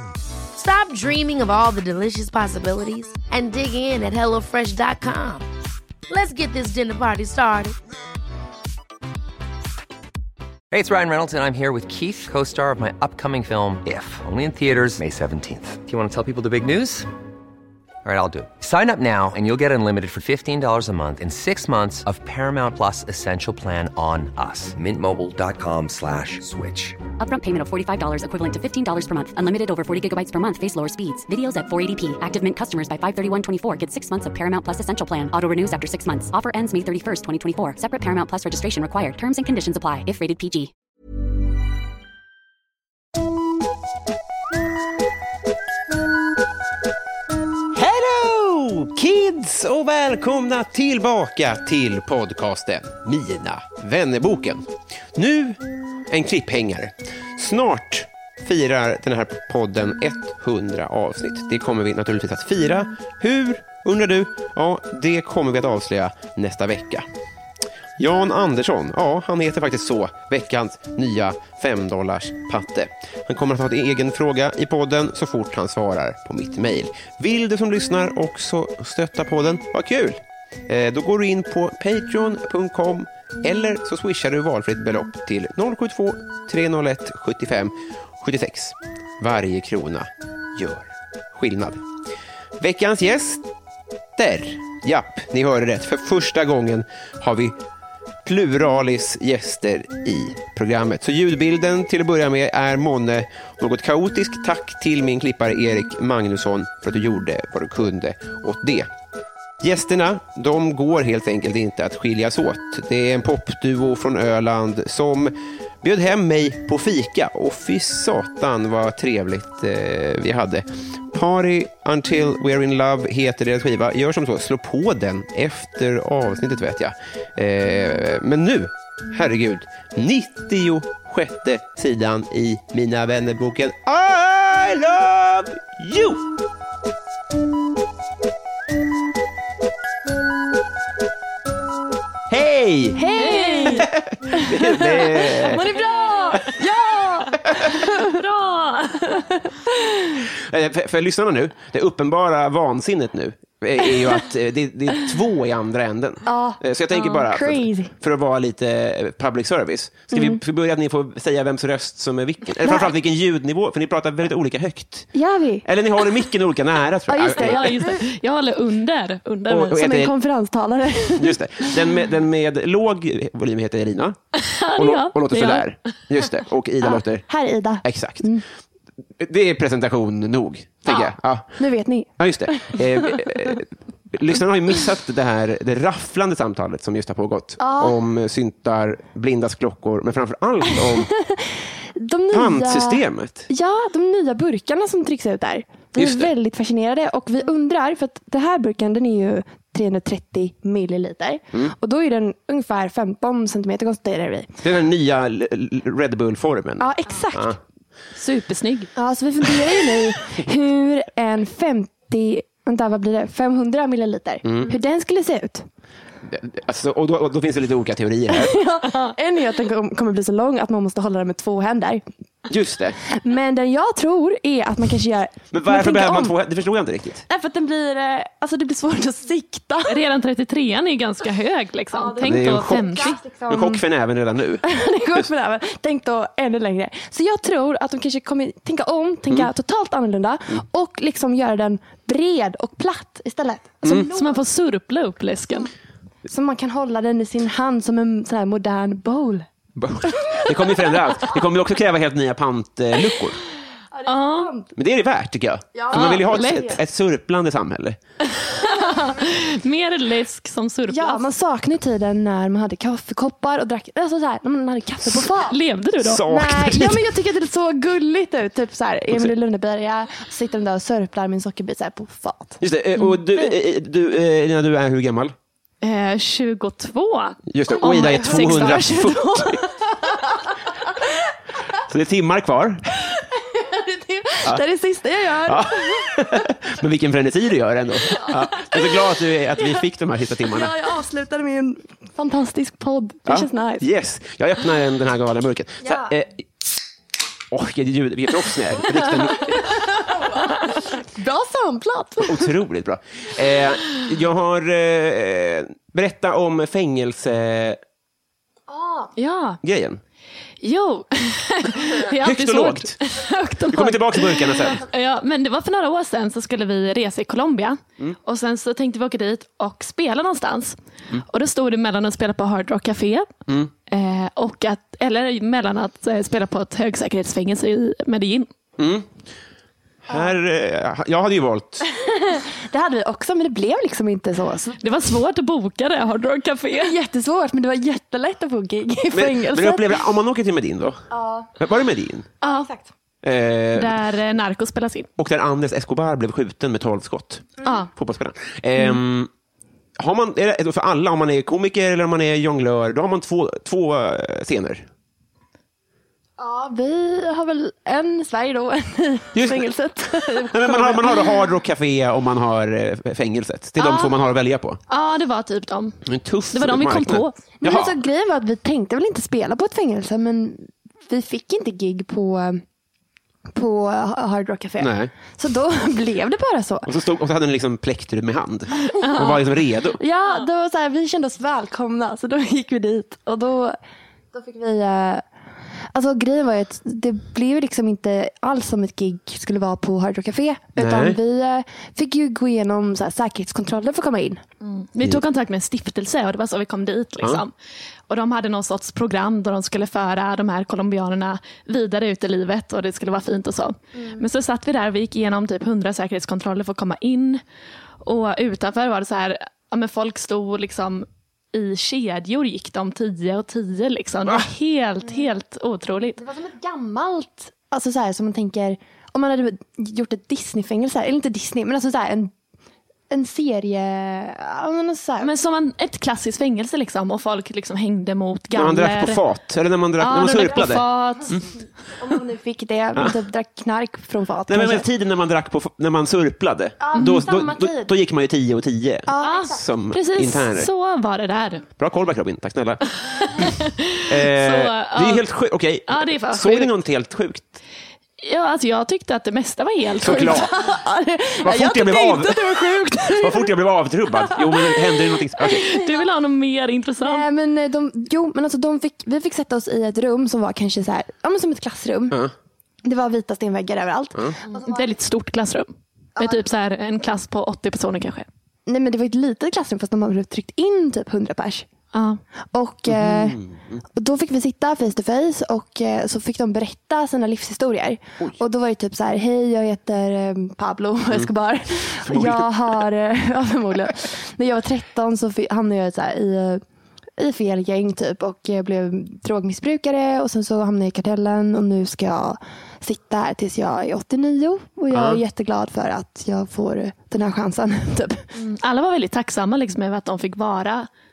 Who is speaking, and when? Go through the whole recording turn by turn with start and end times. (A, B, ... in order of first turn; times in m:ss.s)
0:00.5-0:05.5 A
0:06.1-0:07.8 A
0:10.7-0:17.1 B
0:18.0-0:27.0 B
0:27.2-0:40.7 C
0:47.7-1:07.0 D
1:08.0-1:31.8 D
1:32.6-1:33.4 D
1:34.2-1:37.6 D
1:38.2-1:48.9 D
1:49.6-2:16.2 D
2:22.3-2:23.1 D
2:23.0-2:28.2 E
2:23.2-2:23.8 F
2:23.8-2:25.6 D
2:28.0-2:29.2 F
2:29.0-2:30.3 E
2:30.4-2:45.1 D
2:36.2-2:37.9 E
2:40.1-2:40.4 E
2:42.6-2:42.9 E
2:45.1-2:45.6 E
2:45.6-2:47.9 D
2:47.1-2:48.0 E
2:47.2-2:49.8 F
2:49.5-2:50.1 D
2:49.7-2:51.7 E
2:51.1-2:54.2 D
2:54.4-2:55.7 F
2:54.7-2:57.2 D
2:56.8-2:58.4 E
2:57.8-2:58.4 D
2:59.2-3:01.5 D
3:01.6-3:03.6 E
3:02.2-3:11.1 D
3:07.6-3:08.0 E
3:10.8-3:24.6 E
3:12.3-3:13.5 D
3:16.0-3:16.3 D
3:24.6-3:27.6 D
3:26.8-3:27.6 E
3:28.1-3:28.9 F
3:29.0-3:35.6 E
3:34.4-3:34.7 D
3:36.2-3:38.6 D
3:38.3-3:42.0 E
3:42.5-3:43.0 D
3:43.1-3:46.3 E
3:45.5-3:47.2 D
3:47.3-3:50.0 E
3:49.9-3:53.2 F
3:51.9-3:53.8 E
3:52.2-3:55.3 D
3:54.6-4:04.4 E
4:03.9-4:05.7 F
4:06.2-4:09.5 E
4:09.8-4:13.4 D
4:10.1-4:10.9 E
4:13.9-4:14.7 E
4:14.0-4:14.5 F
4:14.8-4:18.0 D
4:15.7-4:16.8 E
4:15.9-4:16.7 F
4:18.4-4:21.2 F
4:18.7-4:19.2 E
4:20.9-4:25.6 E
4:25.4-4:26.2 F
4:26.0-4:27.1 D
4:26.2-4:32.6 E
4:32.6-4:35.3 D
4:35.8-4:39.4 F
4:37.5-4:39.6 D
4:37.7-4:40.2 E
4:41.9-4:43.0 D
4:43.1-4:46.2 E
4:45.4-4:50.7 D
4:48.1-4:49.7 E
4:50.5-4:53.9 E
4:53.3-4:56.4 D
4:55.8-4:56.1 E
4:57.5-4:59.6 D
4:59.4-5:02.5 E
5:02.2-5:07.8 D
5:08.7-5:09.1 E
5:09.2-5:09.6 F
5:09.6-5:10.0 D
5:10.6-5:23.3 F
5:12.2-5:13.0 D
5:13.7-5:14.8 D
5:23.9-5:28.5 F
5:28.8-5:29.1 D
5:30.0-5:31.8 D
5:31.9-5:34.8 E
5:34.8-5:36.9 F
5:36.8-5:39.9 E
5:39.1-5:41.0 D
5:41.1-5:41.5 E
5:41.6-5:42.3 D
5:42.4-5:42.7 F
5:42.4-5:42.9 E
5:43.2-5:44.0 D
5:43.7-5:45.1 F
5:45.2-5:49.3 D
5:47.6-5:47.9 F
5:50.0-5:54.8 D
5:56.4-6:01.4 E
5:59.3-6:04.8 D
6:04.9-6:06.0 F
6:06.0-6:08.0 D
6:06.5-6:07.4 F
6:07.6-6:12.6 E
6:13.5-6:16.9 E
6:14.8-6:15.1 D
6:16.8-6:20.0 D
6:19.0-6:19.4 F
6:19.1-6:19.4 E
6:20.0-6:23.8 E
6:24.3-6:25.2 E
6:25.9-6:34.4 E
6:30.8-6:31.2 D
6:34.6-6:37.5 F
6:38.1-6:47.4 F
6:48.0-6:56.2 F
6:56.2-7:02.3 E
7:03.1-7:05.3 E
7:05.2-7:09.2 F
7:08.5-7:11.5 D
7:10.0-7:11.3 F
7:10.5-7:11.3 E
7:11.9-7:14.8 E
7:12.9-7:13.2 D
7:14.5-7:20.7 D
7:16.8-7:17.9 E
7:19.1-7:19.6 E
7:19.2-7:21.6 F
7:21.8-7:22.8 D
7:23.0-7:25.2 F
7:24.0-7:27.6 D
7:25.9-7:26.7 F
7:28.2-7:30.5 F
7:30.0-7:30.5 D
7:30.1-7:33.5 E
7:31.4-7:35.7 D
7:34.2-7:35.1 E
7:35.4-7:37.2 F
7:35.6-7:36.0 E
7:37.0-7:42.2 E
7:42.8-7:45.0 E
7:44.5-7:48.3 F
7:46.2-7:46.4 E
7:48.7-7:51.6 E
7:51.9-7:52.2 F
7:52.5-7:53.4 E
7:52.9-7:53.8 D
7:54.0-8:06.6 E
8:02.0-8:02.8 D
8:07.2-8:18.2 E
8:14.9-8:15.2 D
8:18.3-8:20.9 F